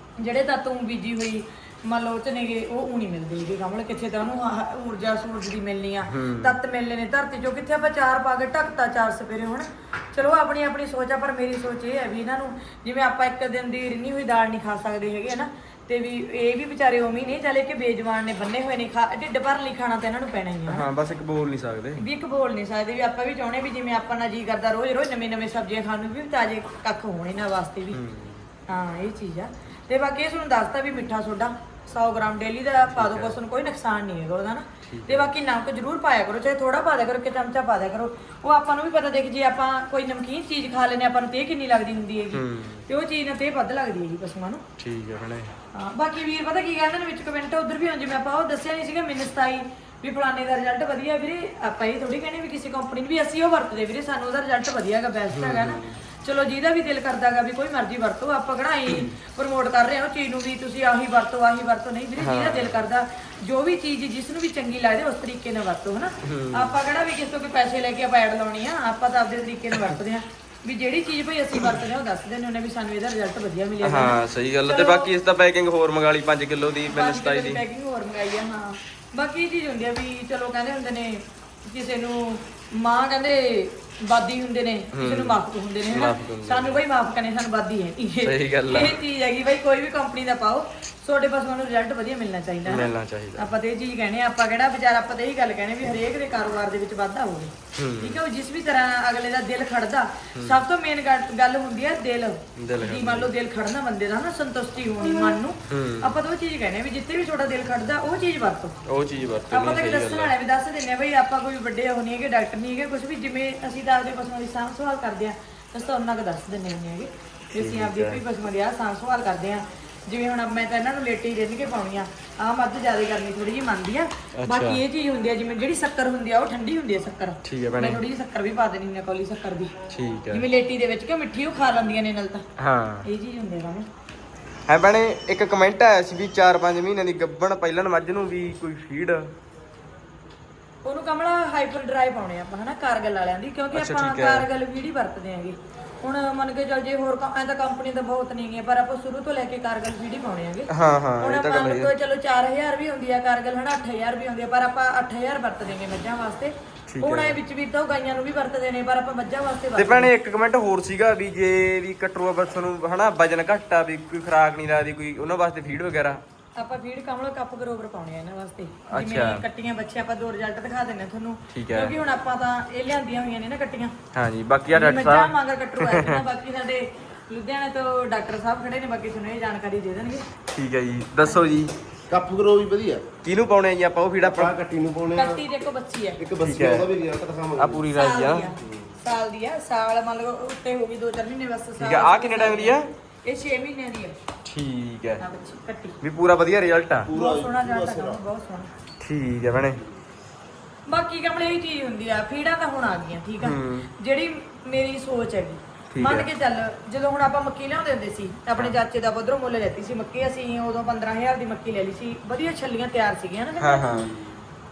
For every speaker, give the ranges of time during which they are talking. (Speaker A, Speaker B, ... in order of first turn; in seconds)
Speaker A: 0.2-20.9, 22.0-28.0, 28.7-44.6, 45.7-75.1, 76.9-108.8, 109.5-129.8, 130.3-132.4, 133.1-133.9, 140.8-160.1, 166.6-173.9, 174.7-180.3, 185.1-186.2, 187.9-194.2, 195.2-196.0, 197.1-198.7, 200.9-214.1
Speaker B: 6.1-6.6, 20.7-22.1, 27.9-28.4, 32.9-33.4, 34.9-35.3, 42.3-42.8, 44.8-45.5, 55.3-56.0, 62.2-62.8, 66.2-66.8, 73.8-77.6, 84.9-86.8, 88.2-89.0, 92.7-93.5, 97.8-98.2, 100.3-100.6, 102.6-103.3, 105.7-106.2, 108.8-110.3, 117.5-118.2, 124.4-124.8, 127.4-128.0, 129.9-130.5, 132.6-133.1, 134.7-139.3, 143.7-144.5, 150.7-151.9, 156.9-157.4, 159.8-166.2, 168.9-169.4, 171.5-172.0, 174.1-176.2, 180.5-181.8, 183.2-184.6, 186.4-186.9, 187.6-188.6, 191.8-192.9, 194.4-195.2, 196.0-197.1, 199.0-199.8, 203.4-203.9, 205.9-206.3, 213.6-214.4
Speaker C: 182.1-183.1, 184.3-185.4, 186.2-187.8, 197.1-198.2